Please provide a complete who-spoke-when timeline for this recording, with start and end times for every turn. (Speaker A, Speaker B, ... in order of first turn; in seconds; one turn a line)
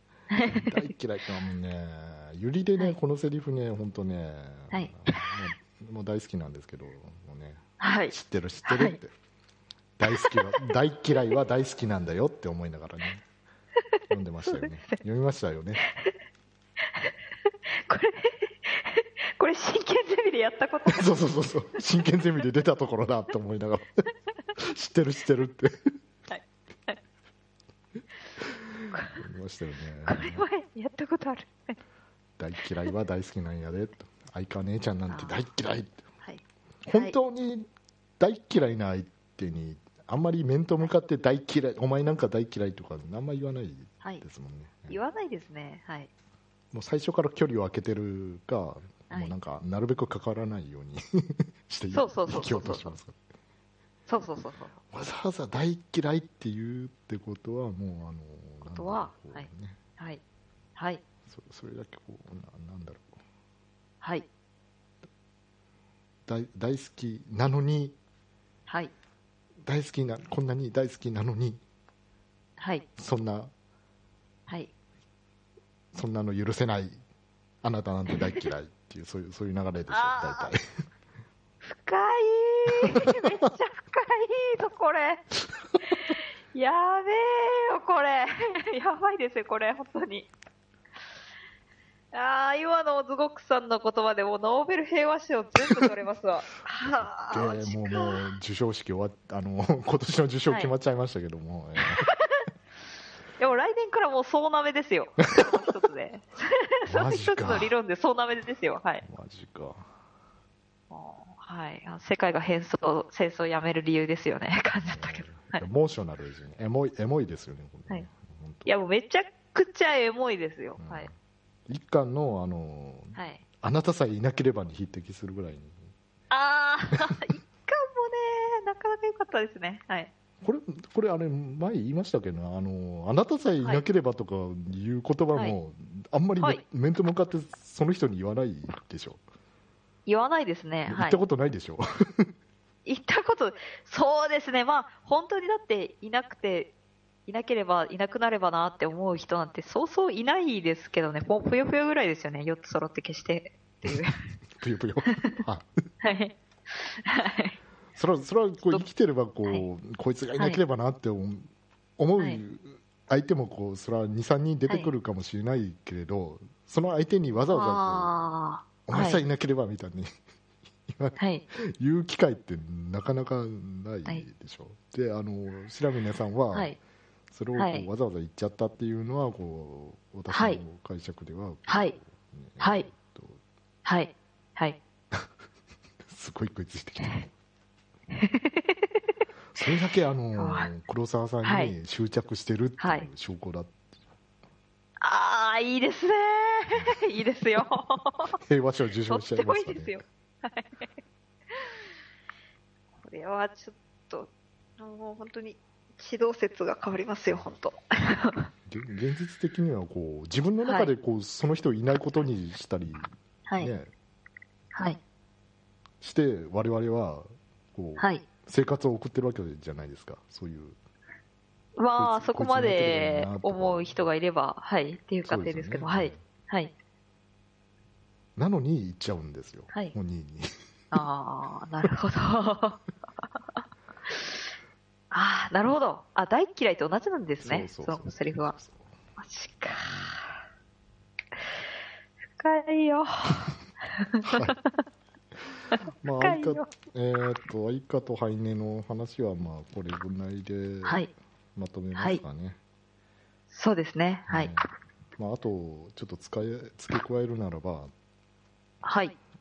Speaker A: 0.3-0.8
Speaker B: 0.5-9.1
Speaker A: 4.7-5.3
Speaker A: 7.8-8.1
Speaker A: 8.7-9.0
Speaker B: 10.0-13.2
Speaker A: 10.1-10.7
Speaker B: 14.1-15.8
Speaker A: 14.5-15.0
Speaker A: 15.9-16.1
Speaker A: 17.9-21.1
Speaker B: 20.9-24.0
Speaker B: 24.6-25.7
Speaker A: 26.3-27.0
Speaker A: 28.9-29.2
Speaker B: 29.2-30.5
Speaker A: 30.1-31.8
Speaker B: 32.4-36.0
Speaker A: 35.1-35.3
Speaker A: 36.2-37.1
Speaker B: 36.9-45.0
Speaker A: 44.9-46.1
Speaker B: 46.7-53.2
Speaker A: 51.9-53.0
Speaker A: 54.1-54.8
Speaker B: 54.9-59.8
Speaker A: 58.6-59.5
Speaker A: 60.8-61.0
Speaker B: 61.3-63.1
Speaker B: 66.2-68.0
Speaker B: 69.6-71.6
Speaker A: 72.6-72.8
Speaker B: 73.0-73.5
Speaker B: 75.9-77.0
Speaker B: 77.6-80.6
Speaker A: 79.9-80.5
Speaker A: 81.6-85.2
Speaker A: 85.9-90.3
Speaker A: 92.1-98.2
Speaker B: 96.8-102.1
Speaker A: 100.5-100.7
Speaker A: 101.8-102.5
Speaker A: 103.4-109.0
Speaker B: 106.9-107.7
Speaker B: 109.0-109.9
Speaker A: 110.9-115.6
Speaker B: 114.8-118.7
Speaker A: 118.7-121.1
Speaker B: 120.8-121.1
Speaker B: 121.7-125.8
Speaker A: 123.1-123.4
Speaker A: 126.3-130.1
Speaker B: 130.4-139.2
Speaker A: 140.1-141.2
Speaker B: 140.9-142.3
Speaker A: 142.8-146.7
Speaker A: 147.3-154.2
Speaker B: 154.6-155.7
Speaker A: 155.1-155.4
Speaker A: 156.0-157.6
Speaker B: 157.9-168.1
Speaker A: 167.5-169.2
Speaker B: 168.9-170.1
Speaker B: 170.9-176.7
Speaker A: 171.2-171.4
Speaker B: 177.3-183.4
Speaker A: 177.6-177.9
Speaker A: 180.3-180.6
Speaker A: 181.7-181.9
Speaker A: 182.6-182.9
Speaker A: 183.8-184.8
Speaker B: 186.0-187.3
Speaker A: 188.1-188.8
Speaker B: 189.5-193.7
Speaker A: 190.3-190.7
Speaker A: 191.4-191.7
Speaker A: 192.8-193.1
Speaker A: 195.0-198.3
Speaker B: 196.7-197.0
Speaker B: 198.4-200.0
Speaker A: 199.1-200.9
Speaker A: 203.0-208.5
Speaker B: 208.7-213.1
Speaker A: 210.6-210.9
Speaker B: 213.6-213.9
Speaker B: 216.0-220.8
Speaker A: 218.0-218.2
Speaker A: 221.8-226.7
Speaker B: 222.0-224.1
Speaker B: 225.2-226.2
Speaker B: 228.3-230.5
Speaker A: 229.7-229.9
Speaker A: 230.9-232.8
Speaker A: 233.6-234.4
Speaker A: 235.1-238.6
Speaker B: 237.4-238.8
Speaker A: 239.2-240.3
Speaker A: 242.4-244.4
Speaker B: 244.2-244.6
Speaker A: 245.7-246.7
Speaker B: 246.0-251.0
Speaker A: 250.8-251.1
Speaker B: 251.5-252.6
Speaker A: 251.9-252.2
Speaker A: 253.5-254.6
Speaker B: 254.3-254.7
Speaker B: 255.2-257.9
Speaker A: 258.8-259.1